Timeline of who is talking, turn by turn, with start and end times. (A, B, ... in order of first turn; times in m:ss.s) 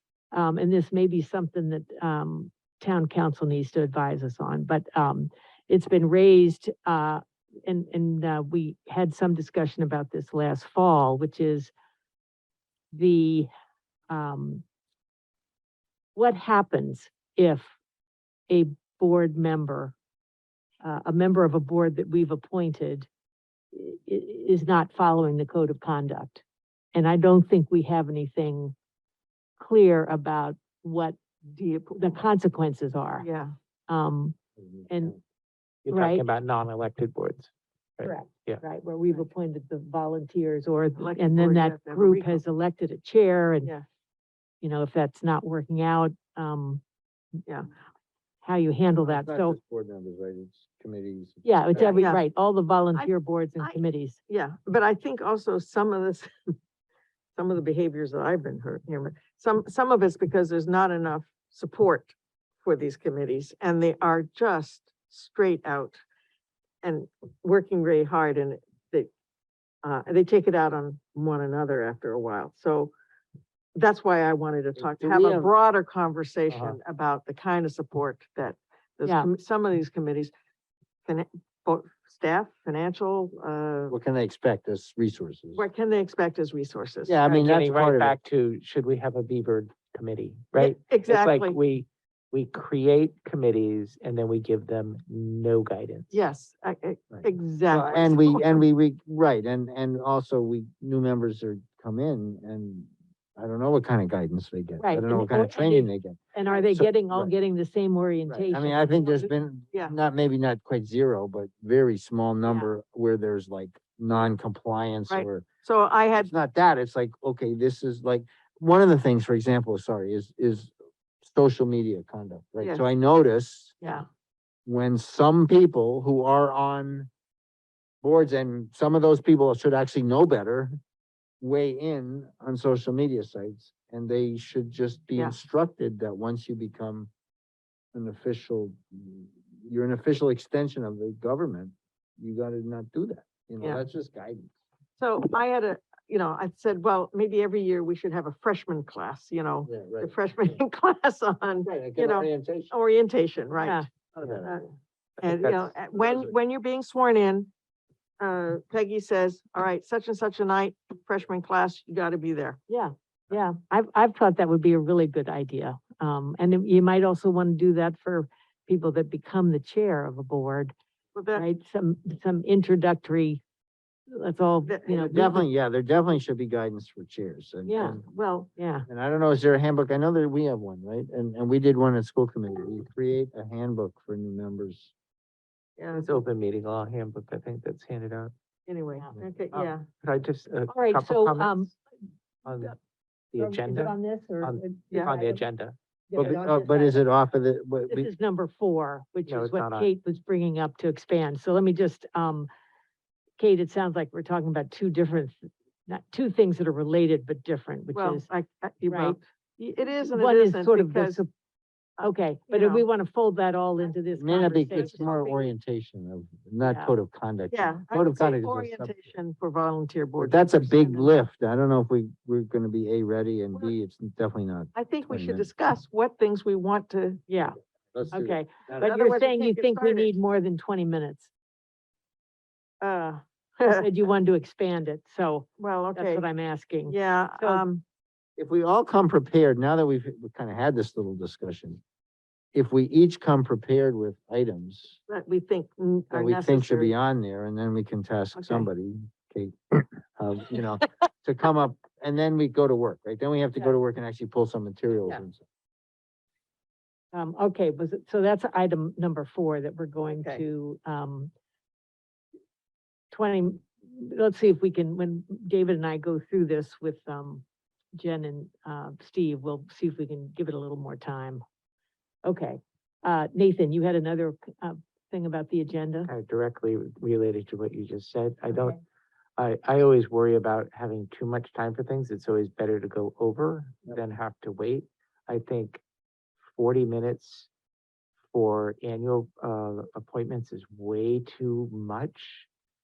0:00.3-0:11.7 A
0:12.9-0:13.5 A
0:14.1-0:14.6 A
0:16.1-0:17.7 A
0:18.5-0:19.9 A
0:20.8-0:23.1 A
0:23.7-0:26.4 A
0:26.9-0:28.7 A
0:29.6-0:31.2 A
0:31.5-0:32.2 B
0:32.0-0:33.2 A
0:33.2-0:33.5 B
0:33.9-0:34.4 A
0:34.6-0:35.1 C
0:34.9-0:35.2 A
0:35.8-0:38.6 D
0:35.9-0:36.3 A
0:38.0-0:43.7 A
0:41.0-0:42.4 B
0:44.6-0:46.8 A
0:48.4-0:49.6 A
0:49.0-0:52.1 C
0:51.4-0:54.2 A
0:51.8-0:52.2 B
0:52.9-0:56.3 B
0:57.3-1:06.0 B
1:06.8-1:09.1 B
1:09.8-1:12.9 B
1:13.7-1:20.3 B
1:14.8-1:15.5 C
1:16.5-1:16.8 D
1:19.0-1:19.3 A
1:21.0-1:23.9 B
1:23.9-1:25.6 C
1:25.5-1:27.4 B
1:27.0-1:28.2 C
1:27.3-1:36.1 D
1:30.6-1:31.6 B
1:36.1-1:38.6 B
1:37.1-1:47.3 C
1:44.8-1:48.9 A
1:48.4-1:55.4 C
1:52.4-1:52.7 B
1:55.1-1:56.3 B
1:56.1-2:03.9 C
2:02.6-2:02.9 B
2:04.6-2:07.1 C
2:08.0-2:10.8 C
2:11.4-2:17.1 C
2:17.9-2:24.5 C
2:25.0-2:33.8 B
2:29.6-2:30.6 C
2:31.6-2:32.7 C
2:33.6-2:33.9 A
2:34.1-2:34.5 C
2:34.4-2:34.7 B
2:35.2-2:35.7 D
2:35.2-2:37.5 B
2:35.9-2:36.3 C
2:38.2-2:42.6 B
2:42.7-2:50.7 A
2:51.1-2:51.4 B
2:51.3-2:53.4 A
2:54.1-2:55.4 A
2:54.6-2:55.1 B
2:54.9-2:58.0 C
2:57.6-2:58.0 A
2:57.9-2:58.5 B
2:58.6-2:58.8 A
2:58.9-3:04.9 C
3:05.8-3:06.2 B
3:05.9-3:08.3 D
3:08.7-3:09.8 B
3:09.5-3:11.7 D
3:10.7-3:11.7 A
3:12.4-3:12.8 D
3:12.5-3:12.7 A
3:13.3-3:16.4 D
3:13.4-3:15.4 A
3:16.1-3:17.0 A
3:16.2-3:18.1 C
3:17.9-3:22.5 A
3:19.3-3:19.9 D
3:23.4-3:28.3 A
3:27.9-3:31.2 B
3:28.9-3:29.2 A
3:30.1-3:31.3 A
3:32.0-3:32.8 B
3:32.0-3:35.1 A
3:34.2-3:39.1 C
3:34.7-3:35.5 B
3:36.6-3:36.9 A
3:37.5-3:41.1 B
3:40.2-3:45.5 C
3:44.7-3:47.2 B
3:47.3-3:47.6 A
3:47.9-3:48.9 C
3:48.1-3:51.3 A
3:48.8-3:50.1 B
3:52.8-3:53.9 B
3:53.7-3:57.6 A
3:55.6-3:56.2 B
3:56.9-3:57.8 B
3:58.4-4:01.8 C
4:02.5-4:05.0 C
4:05.1-4:06.9 B
4:06.1-4:15.4 C
4:08.4-4:08.7 B
4:17.1-4:21.3 A
4:20.2-4:20.4 B
4:23.1-4:27.4 A
4:27.9-4:31.4 A
4:32.2-4:36.1 A
4:36.1-4:38.8 D
4:39.4-4:45.8 D
4:46.5-4:47.5 D
4:48.3-4:52.5 D